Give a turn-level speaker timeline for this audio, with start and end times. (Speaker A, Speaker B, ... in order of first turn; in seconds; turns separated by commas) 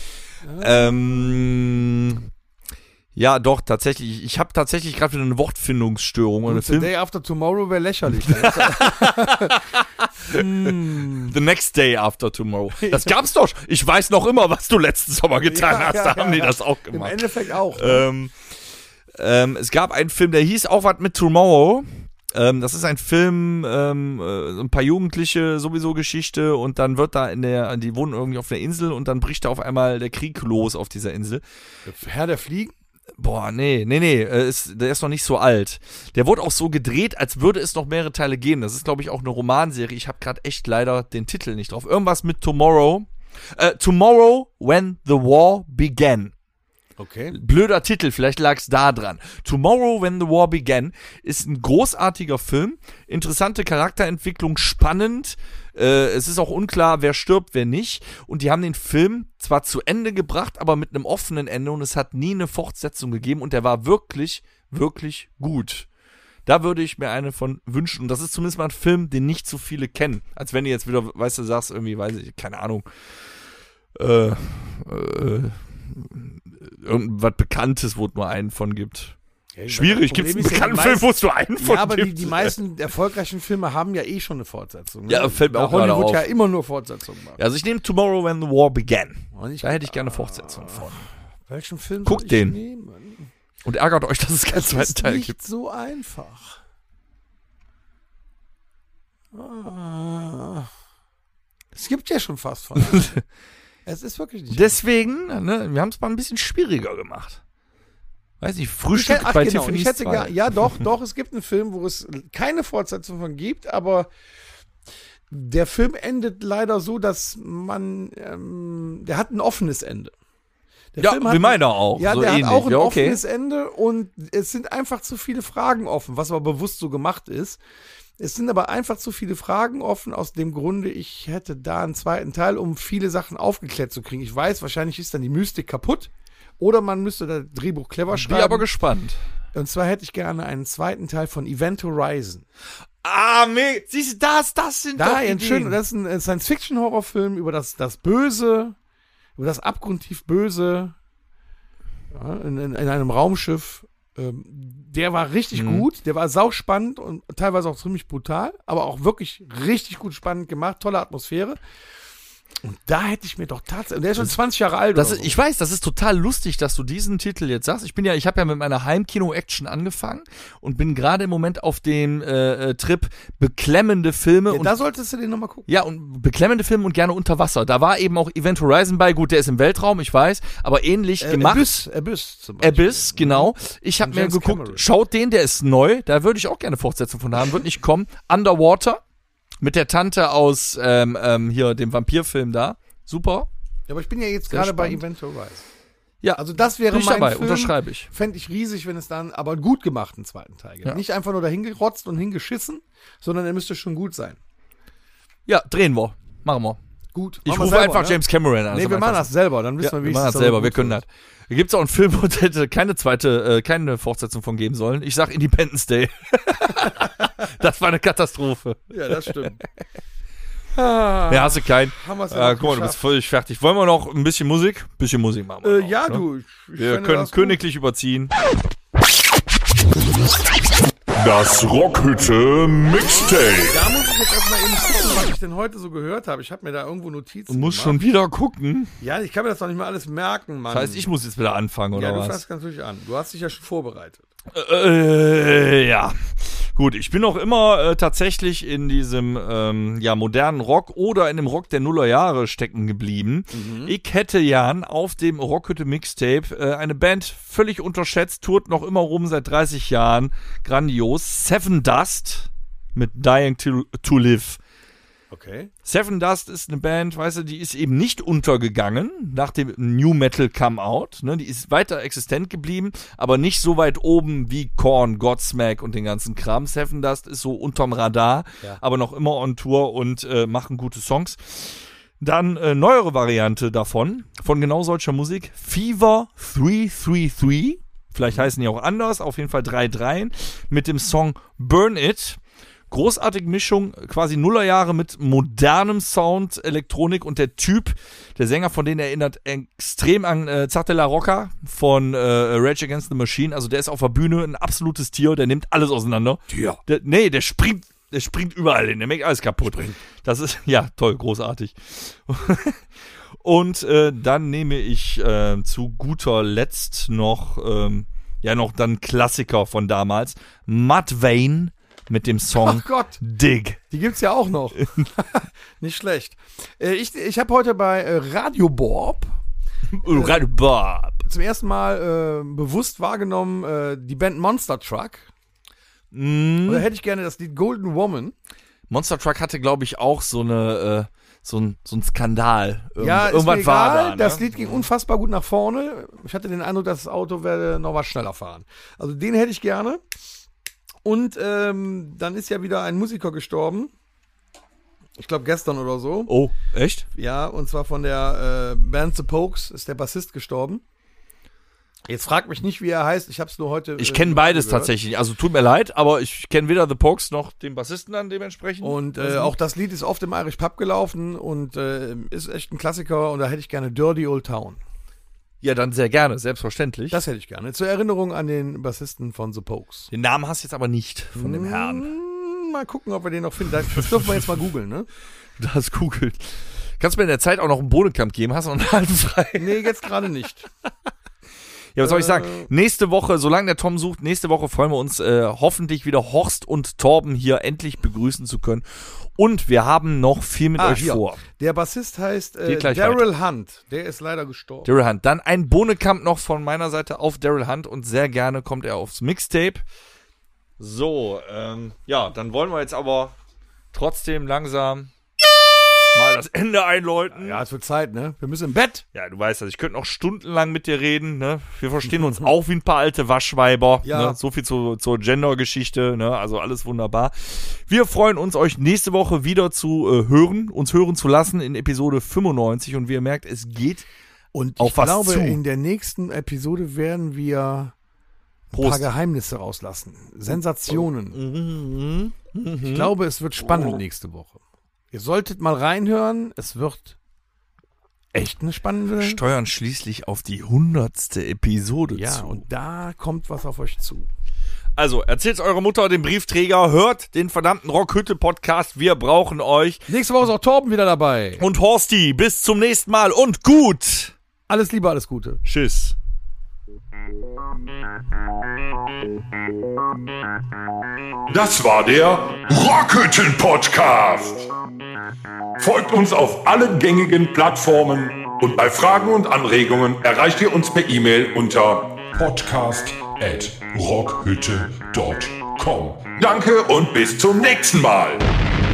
Speaker A: 0.4-1.4, Speaker B: 0.6-2.3, Speaker B: 3.1-6.9, Speaker A: 6.5-9.7, Speaker B: 8.1-18.4, Speaker A: 10.2-11.3, Speaker A: 12.8-13.1, Speaker A: 15.4-18.1, Speaker B: 19.1-31.4, Speaker A: 31.9-32.7, Speaker B: 33.2-46.3, Speaker A: 47.0-47.4, Speaker B: 47.3-65.9, Speaker B: 66.5-72.9, Speaker B: 74.0-79.2, Speaker A: 79.5-87.4, Speaker B: 79.7-82.5, Speaker B: 85.1-86.3, Speaker B: 87.4-91.1, Speaker A: 89.3-90.9, Speaker A: 91.5-93.3, Speaker B: 92.0-92.6, Speaker B: 93.7-95.4, Speaker A: 94.5-96.6, Speaker A: 99.3-100.7, Speaker A: 101.7-103.1, Speaker B: 102.8-103.2, Speaker A: 103.9-104.8, Speaker B: 104.5-107.4, Speaker B: 108.4-110.4, Speaker A: 108.9-114.1, Speaker A: 115.3-120.1, Speaker A: 120.9-127.6, Speaker B: 121.0-123.2, Speaker A: 128.2-138.7, Speaker B: 138.1-139.2, Speaker A: 139.5-142.4, Speaker B: 143.0-145.8, Speaker A: 144.9-148.8, Speaker A: 149.4-150.9, Speaker A: 152.1-161.6, Speaker B: 155.6-155.8, Speaker A: 162.6-165.3, Speaker B: 164.9-174.7, Speaker A: 174.5-175.7, Speaker B: 175.7-181.8, Speaker A: 181.2-184.8, Speaker B: 182.6-189.0, Speaker B: 189.6-193.5, Speaker A: 193.9-195.7, Speaker B: 194.5-195.0, Speaker B: 196.2-198.1, Speaker A: 196.4-204.4, Speaker B: 205.4-206.8, Speaker A: 207.1-211.0, Speaker B: 207.4-209.3, Speaker B: 209.8-219.5, Speaker A: 218.9-219.6, Speaker A: 220.7-223.0, Speaker B: 221.3-226.2, Speaker A: 225.6-227.6, Speaker B: 226.8-228.3, Speaker C: 231.2-233.8, Speaker A: 233.7-238.0, Speaker B: 237.5-238.9, Speaker A: 239.0-241.1, Speaker B: 240.7-242.4, Speaker A: 241.9-244.2, Speaker B: 244.5-264.6, Speaker A: 253.5-253.9, Speaker A: 265.3-265.7, Speaker B: 265.9-292.4, Speaker B: 292.9-312.9, Speaker A: 306.5-306.8, Speaker A: 309.6-310.0, Speaker B: 313.4-323.8, Speaker A: 322.5-323.2, Speaker A: 323.9-329.4, Speaker B: 329.9-331.2, Speaker A: 330.0-330.4, Speaker A: 331.2-335.3, Speaker B: 336.1-336.9, Speaker A: 336.6-338.4, Speaker B: 338.9-344.9, Speaker A: 343.0-350.0, Speaker A: 351.1-353.9, Speaker A: 355.2-356.3, Speaker B: 356.3-357.1, Speaker A: 357.1-360.8, Speaker A: 362.1-364.9, Speaker B: 364.0-369.6, Speaker A: 368.8-374.8, Speaker B: 375.6-377.2, Speaker A: 377.1-380.1, Speaker B: 380.1-382.1, Speaker A: 381.4-385.1, Speaker B: 385.6-389.9, Speaker A: 389.6-390.7, Speaker B: 391.9-401.4, Speaker A: 392.0-392.7, Speaker A: 400.8-404.9, Speaker B: 402.6-403.3, Speaker B: 404.9-409.8, Speaker B: 410.8-413.3, Speaker B: 413.9-415.1, Speaker B: 416.1-417.6, Speaker A: 417.3-419.1, Speaker B: 419.1-434.1, Speaker A: 424.0-424.4, Speaker A: 434.5-437.9, Speaker B: 434.8-435.6, Speaker B: 438.7-439.1, Speaker A: 438.7-441.4, Speaker B: 440.9-443.1, Speaker A: 442.8-444.6, Speaker A: 445.1-447.2, Speaker A: 448.3-449.4, Speaker B: 449.2-452.6, Speaker A: 452.1-454.3, Speaker B: 455.0-460.1, Speaker A: 460.1-461.6, Speaker B: 461.6-464.3, Speaker A: 464.7-465.6, Speaker B: 465.6-466.1, Speaker C: 471.5-474.7, Speaker C: 475.8-488.4